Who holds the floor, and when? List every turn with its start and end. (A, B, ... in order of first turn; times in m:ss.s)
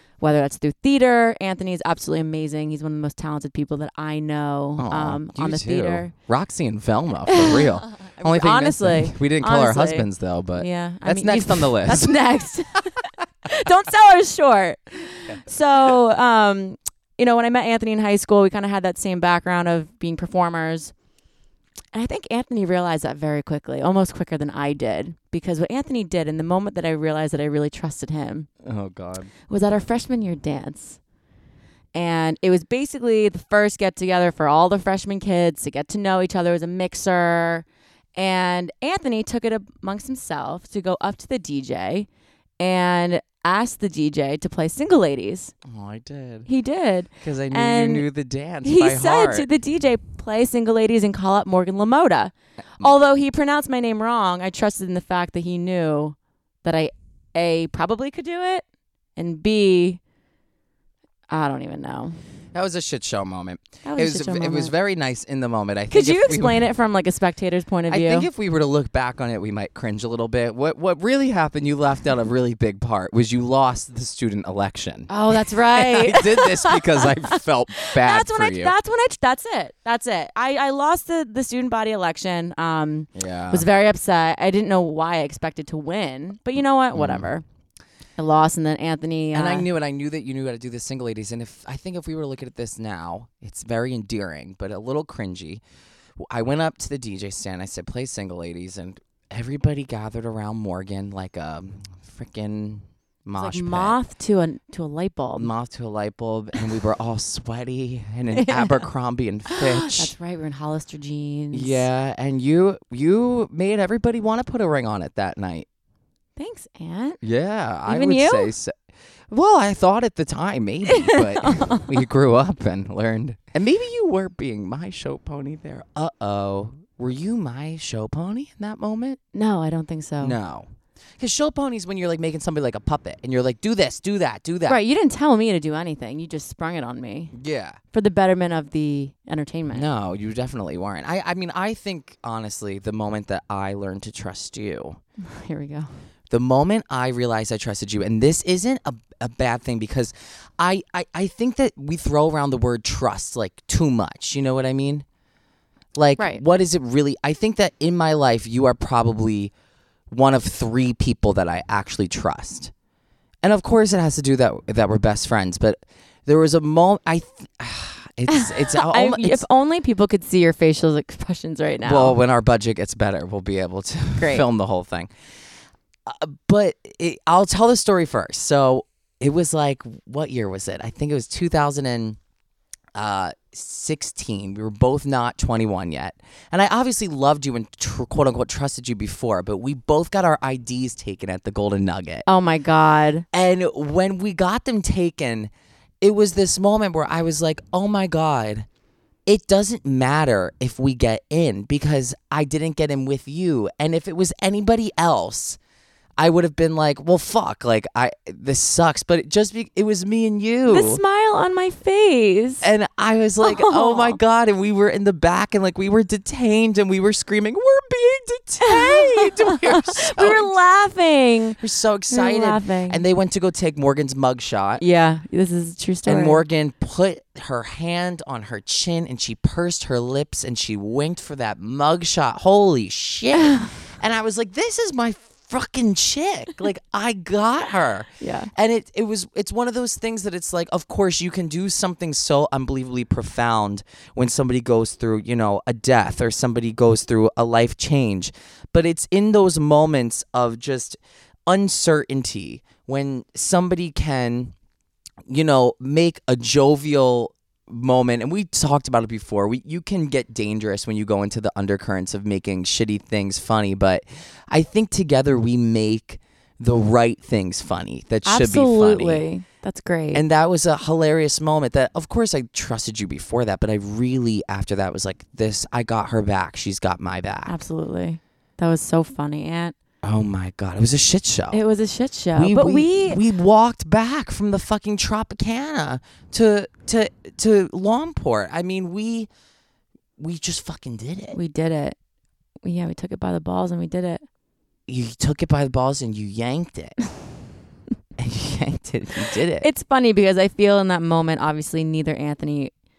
0:00.2-0:06.1 A
0:04.8-0:12.2 B
0:07.3-0:20.9 A
0:21.9-0:28.5 A
0:28.6-0:29.3 B
0:29.5-0:31.0 A
0:32.0-0:42.1 A
0:42.6-0:45.5 A
0:45.6-0:46.5 B
0:46.5-0:48.1 A
0:47.2-0:49.5 B
0:48.6-0:58.6 A
0:59.2-1:00.0 A
1:01.3-1:02.2 A
1:02.5-1:06.7 B
1:03.8-1:04.7 A
1:05.9-1:08.3 A
1:07.9-1:18.7 B
1:15.1-1:27.4 A
1:23.2-1:23.7 B
1:26.9-1:27.3 B
1:28.2-1:29.7 A
1:29.3-1:35.6 B
1:36.2-1:44.0 B
1:43.4-1:45.5 A
1:45.4-1:50.1 B
1:48.3-1:48.8 A
1:49.5-1:51.9 A
1:51.5-1:55.7 B
1:56.4-1:57.2 A
1:57.2-1:58.8 B
1:57.9-1:58.5 A
1:59.3-2:09.2 B
2:00.9-2:01.9 A
2:09.3-2:10.4 A
2:10.2-2:14.8 B
2:14.7-2:17.3 A
2:17.3-2:17.8 B
2:17.9-2:19.9 A
2:19.7-2:25.0 B
2:25.2-2:25.9 A
2:26.3-2:35.1 B
2:36.0-2:39.5 B
2:40.1-2:42.7 B
2:43.4-2:49.4 B
2:48.3-2:52.2 A
2:51.8-2:55.1 B
2:54.2-2:54.4 A
2:56.1-3:02.2 B
3:03.0-3:12.2 B
3:12.3-3:13.3 A
3:13.3-3:18.7 B
3:19.3-3:25.6 B
3:26.2-3:31.0 B
3:30.7-3:32.7 A
3:32.6-3:40.5 B
3:33.4-3:34.2 A
3:38.6-3:43.0 A
3:41.6-3:44.8 B
3:44.8-3:46.4 A
3:46.0-4:14.6 B
3:53.3-3:53.7 A
3:58.2-3:58.5 A
4:15.3-4:29.2 B
4:28.2-4:30.2 A
4:30.1-4:37.6 B
4:37.5-4:39.8 A
4:40.0-4:41.6 B
4:41.5-4:43.2 A
4:42.4-4:49.3 B
4:50.2-4:51.4 B
4:51.3-4:52.0 A
4:52.6-4:54.2 A
4:54.9-4:57.0 B
4:58.2-4:59.7 B
4:59.6-5:02.7 A